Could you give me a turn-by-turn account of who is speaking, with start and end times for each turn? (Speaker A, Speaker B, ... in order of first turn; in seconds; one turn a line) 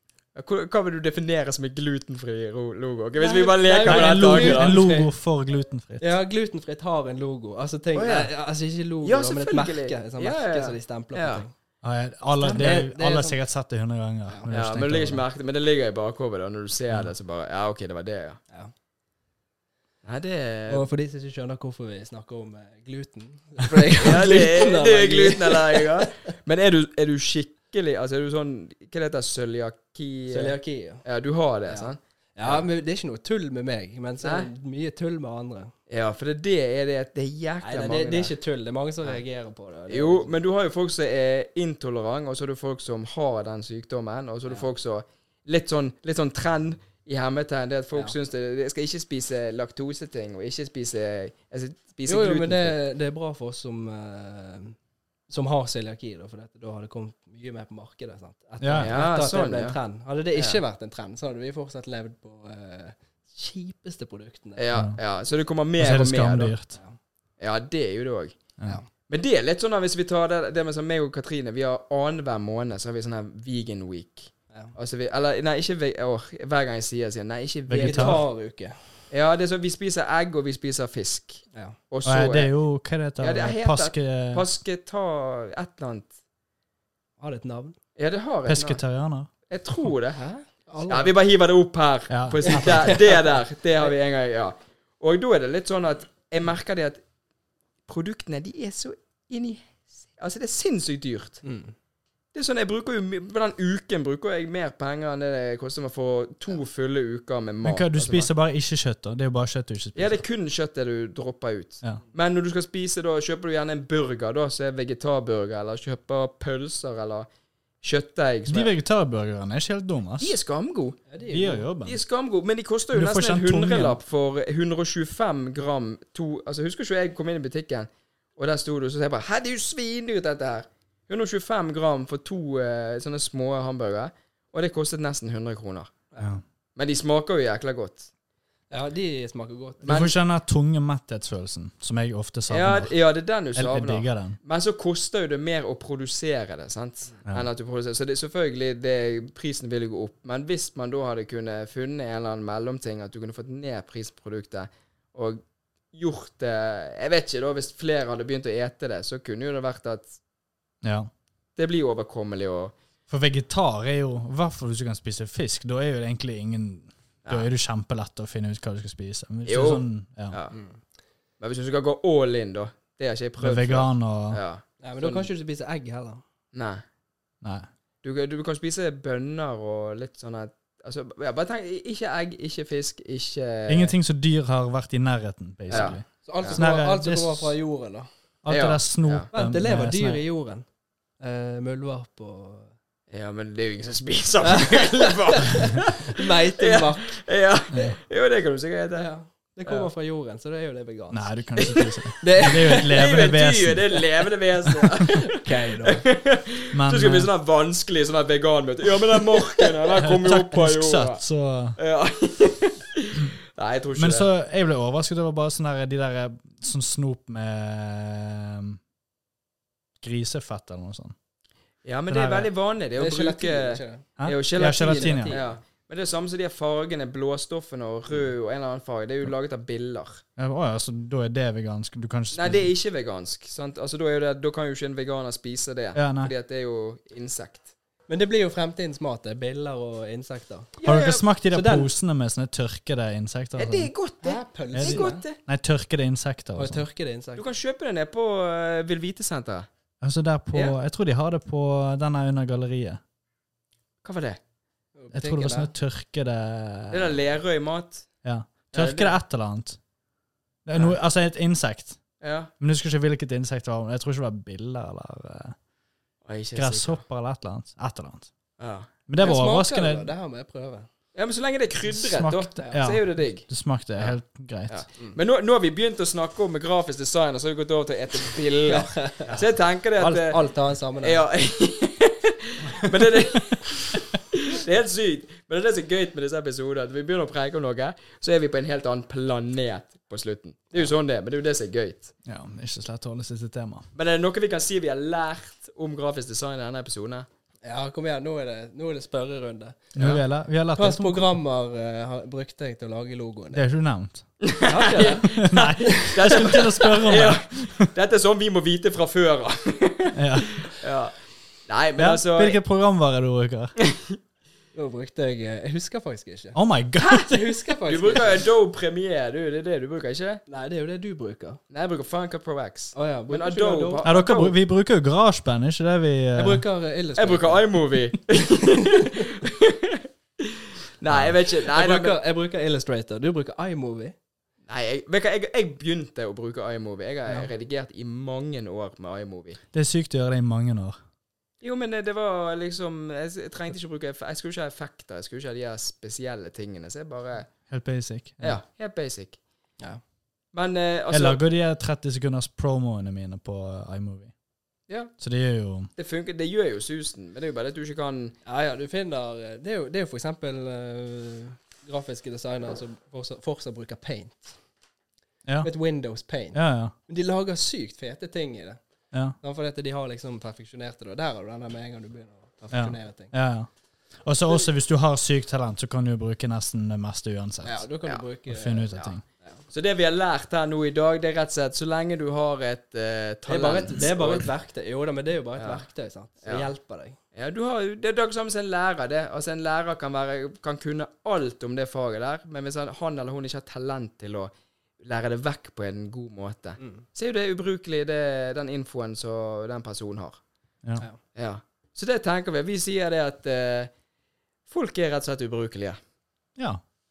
Speaker A: 0.3-4.8
Speaker B: 3.2-5.1
Speaker C: 3.8-6.1
Speaker B: 6.0-11.5
Speaker A: 7.9-8.3
Speaker A: 9.0-11.4
Speaker C: 11.8-15.2
Speaker A: 12.4-12.9
Speaker B: 12.5-13.4
Speaker A: 14.5-18.4
Speaker A: 20.0-20.9
Speaker B: 20.7-26.3
Speaker A: 24.0-32.6
Speaker B: 30.3-31.0
Speaker B: 31.7-35.7
Speaker A: 34.2-34.5
Speaker A: 35.9-38.3
Speaker B: 37.6-40.3
Speaker A: 39.9-52.8
Speaker B: 52.0-54.8
Speaker B: 55.3-64.6
Speaker C: 58.6-59.0
Speaker A: 58.8-59.8
Speaker A: 60.3-60.6
Speaker A: 64.6-66.5
Speaker C: 64.7-65.0
Speaker C: 65.8-66.8
Speaker A: 67.4-68.4
Speaker A: 69.1-78.2
Speaker C: 77.7-78.2
Speaker B: 77.8-78.8
Speaker A: 79.1-82.5
Speaker C: 82.0-84.4
Speaker A: 83.2-86.1
Speaker B: 87.2-87.8
Speaker A: 88.0-88.8
Speaker C: 88.5-89.3
Speaker A: 89.5-90.3
Speaker B: 90.2-91.1
Speaker A: 90.9-97.0
Speaker C: 92.1-93.0
Speaker B: 92.5-93.1
Speaker A: 97.9-101.4
Speaker B: 101.4-101.7
Speaker A: 102.3-108.3
Speaker C: 107.6-110.2
Speaker A: 109.9-117.3
Speaker A: 117.8-118.7
Speaker C: 118.5-120.3
Speaker A: 120.2-121.0
Speaker B: 121.1-121.7
Speaker C: 121.3-122.0
Speaker A: 121.8-135.9
Speaker C: 122.9-124.0
Speaker A: 136.8-138.1
Speaker B: 138.7-139.9
Speaker A: 139.8-140.2
Speaker C: 139.8-142.9
Speaker A: 142.5-155.4
Speaker C: 143.5-144.4
Speaker A: 155.9-160.2
Speaker C: 160.8-161.1
Speaker A: 161.6-162.7
Speaker C: 163.1-170.4
Speaker A: 169.4-170.5
Speaker A: 171.4-175.3
Speaker C: 173.4-174.4
Speaker B: 174.8-176.2
Speaker A: 176.5-176.8
Speaker C: 177.4-177.7
Speaker A: 178.0-183.9
Speaker C: 183.7-187.6
Speaker A: 185.7-186.6
Speaker B: 185.7-188.1
Speaker C: 188.4-190.2
Speaker A: 188.5-189.3
Speaker B: 189.3-190.6
Speaker B: 191.2-192.7
Speaker A: 193.1-199.1
Speaker B: 194.4-197.2
Speaker C: 197.7-198.0
Speaker B: 199.0-201.3
Speaker C: 201.1-204.0
Speaker A: 201.6-211.2
Speaker B: 202.2-202.9
Speaker B: 205.3-206.0
Speaker C: 206.7-207.3
Speaker C: 209.9-211.8
Speaker A: 211.8-214.3
Speaker C: 213.9-218.8
Speaker C: 220.0-221.1
Speaker A: 221.8-230.2
Speaker C: 222.1-222.5
Speaker B: 223.0-224.1
Speaker C: 224.2-225.3
Speaker B: 224.6-225.6
Speaker C: 230.4-232.7
Speaker A: 232.3-237.7
Speaker C: 235.9-236.3
Speaker B: 238.1-240.8
Speaker A: 240.8-241.2
Speaker C: 240.8-243.9
Speaker B: 241.5-241.9
Speaker A: 243.6-245.4
Speaker B: 244.2-245.2
Speaker C: 244.7-246.8
Speaker B: 246.5-247.4
Speaker A: 247.3-249.7
Speaker C: 250.0-253.0
Speaker A: 254.0-254.4
Speaker B: 255.0-255.7
Speaker C: 255.1-257.1
Speaker A: 256.9-258.1
Speaker C: 258.2-259.8
Speaker A: 258.7-259.1
Speaker C: 260.6-262.0
Speaker A: 262.2-262.5
Speaker C: 262.6-265.6
Speaker A: 266.2-267.0
Speaker C: 266.5-268.3
Speaker A: 268.6-268.9
Speaker C: 269.1-270.1
Speaker B: 269.2-270.9
Speaker A: 271.1-274.1
Speaker C: 271.9-274.8
Speaker A: 274.7-280.4
Speaker B: 278.7-279.4
Speaker B: 280.0-281.2
Speaker A: 281.0-292.1
Speaker C: 292.2-293.9
Speaker A: 293.9-297.3
Speaker B: 297.6-299.9
Speaker C: 299.9-301.3
Speaker A: 299.9-300.2
Speaker B: 300.7-303.6
Speaker C: 303.5-304.2
Speaker A: 304.4-311.1
Speaker B: 304.6-305.3
Speaker C: 305.3-307.9
Speaker C: 310.1-310.6
Speaker A: 311.6-312.6
Speaker C: 312.0-313.7
Speaker B: 314.7-316.6
Speaker C: 316.5-317.5
Speaker B: 317.1-318.4
Speaker A: 317.9-320.4
Speaker B: 320.5-321.6
Speaker A: 321.7-324.5
Speaker B: 322.9-324.1
Speaker C: 324.0-326.6
Speaker B: 326.3-327.7
Speaker A: 327.2-332.1
Speaker B: 331.7-334.1
Speaker A: 334.7-339.6
Speaker C: 339.7-341.0
Speaker A: 341.6-347.5
Speaker C: 347.7-348.6
Speaker A: 348.4-349.4
Speaker A: 350.5-351.4
Speaker C: 351.1-354.3
Speaker A: 354.9-355.1
Speaker C: 355.2-355.9
Speaker A: 355.9-358.4
Speaker B: 358.4-364.6
Speaker B: 365.6-368.8
Speaker C: 366.5-366.9
Speaker B: 369.4-373.3
Speaker C: 372.7-373.7
Speaker C: 374.2-377.8
Speaker B: 377.6-379.6
Speaker C: 378.5-379.2
Speaker A: 379.7-384.5
Speaker B: 383.5-387.2
Speaker A: 385.6-385.8
Speaker A: 386.4-386.7
Speaker A: 387.3-400.4
Speaker A: 401.3-403.9
Speaker A: 404.7-406.0
Speaker C: 406.6-406.8